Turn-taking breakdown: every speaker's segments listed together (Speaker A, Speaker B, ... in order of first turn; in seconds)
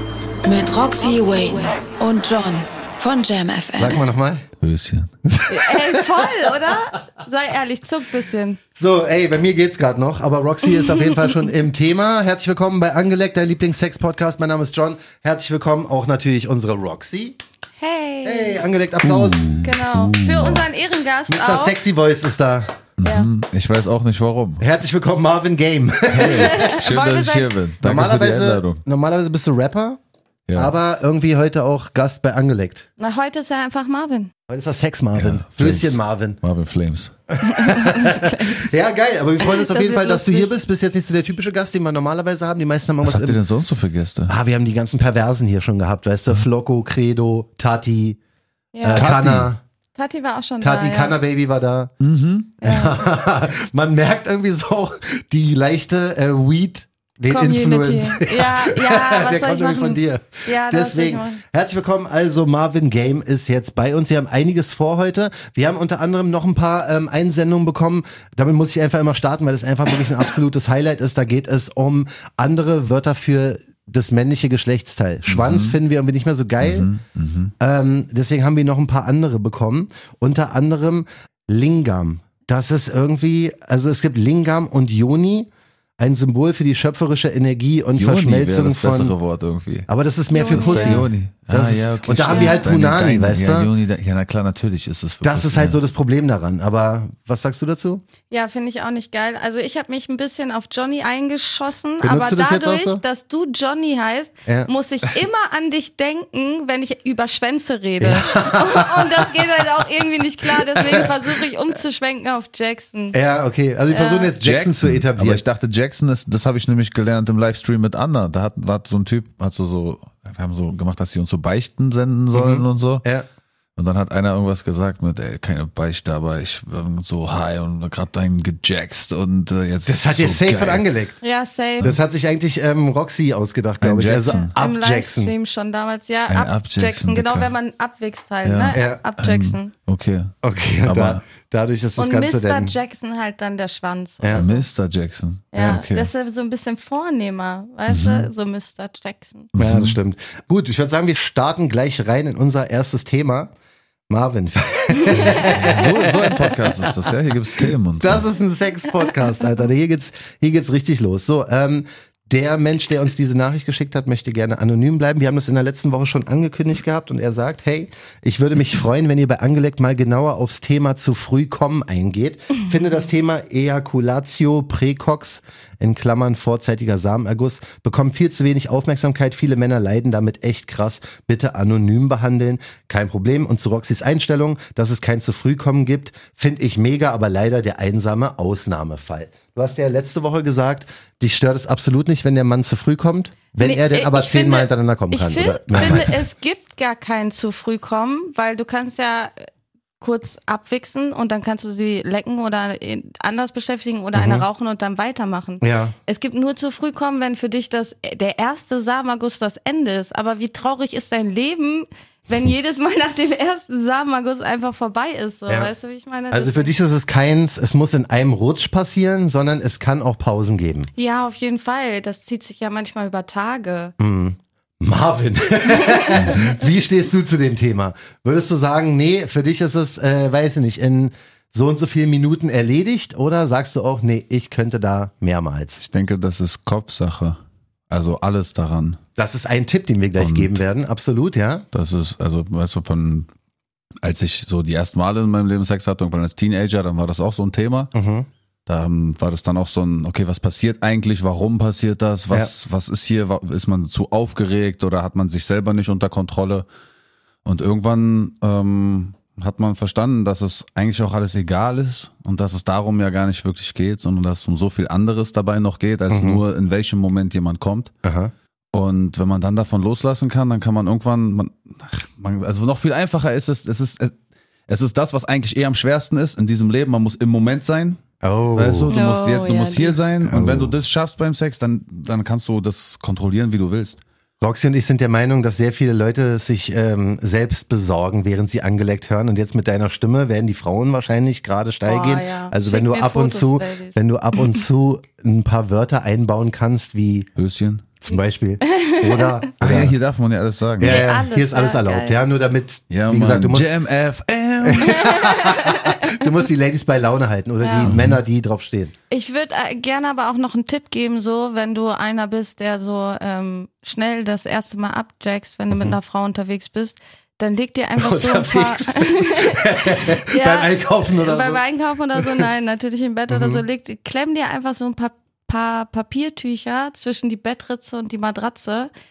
Speaker A: 0.4-4.0
Speaker B: 3.8-4.5, 5.3-6.8, 8.8-17.4, 18.2-19.5, 21.3-22.8, 24.6-26.6, 27.8-30.0, 30.6-32.9, 34.5-36.4, 37.3-43.4, 44.3-48.2, 48.8-49.6, 50.6-51.9, 52.6-76.9, 77.6-89.2, 89.9-93.7, 95.2-98.0, 102.0-103.0, 108.0-109.5, 110.5-111.2, 113.1-115.4, 122.3-123.3, 129.9-131.2, 131.8-135.3, 138.7-139.0, 140.4-142.8, 149.6-153.5, 154.1-196.1, 204.2-204.5, 205.6-205.9, 216.3-220.9, 224.0-235.8, 239.2-241.7, 247.9-248.3, 266.1-266.4, 268.0-268.3, 278.2-278.9, 280.2-280.8, 284.4-297.3, 298.0-300.0, 300.8-303.7, 304.6-308.9, 315.7-316.0, 318.0-321.6, 322.2-322.5, 323.3-323.6
Speaker C: 4.6-5.1, 19.0-20.6, 23.0-24.6, 26.1-28.8, 30.5-30.7, 35.2-37.1, 43.0-44.4, 48.9-49.5, 52.0-52.6, 75.3-75.8, 76.6-77.5, 88.0-89.9, 90.5-95.8, 114.4-123.0, 123.8-130.9, 133.8-134.5, 136.3-137.5, 138.4-141.2, 144.4-146.1, 147.9-148.3, 149.6-150.0, 155.5-158.3, 195.8-196.0, 226.1-226.6, 235.8-237.4, 237.9-239.0, 240.2-240.6, 241.7-243.3, 244.0-247.9, 248.7-256.6, 257.4-267.9, 268.7-274.1, 274.7-278.0, 278.6-284.0, 297.4-297.9, 299.6-301.1, 302.9-305.1, 307.8-308.2
Speaker D: 5.5-8.6, 17.8-18.6, 19.6-21.8, 23.0-23.3, 26.2-27.5, 33.0-34.3, 37.4-38.8, 39.4-40.5, 48.7-49.1, 50.0-51.1, 52.6-53.0, 57.3-61.4, 90.3-91.0, 92.3-92.7, 98.3-113.2, 113.9-114.3, 131.2-131.9, 134.3-139.7, 142.0-144.7, 145.5-149.5, 155.0-156.5, 193.6-199.3, 200.0-216.7, 221.0-223.9, 225.7-226.3, 278.9-280.0, 291.8-294.0, 298.7-299.3, 300.8-302.2, 304.8-306.1, 307.6-307.9, 309.1-328.9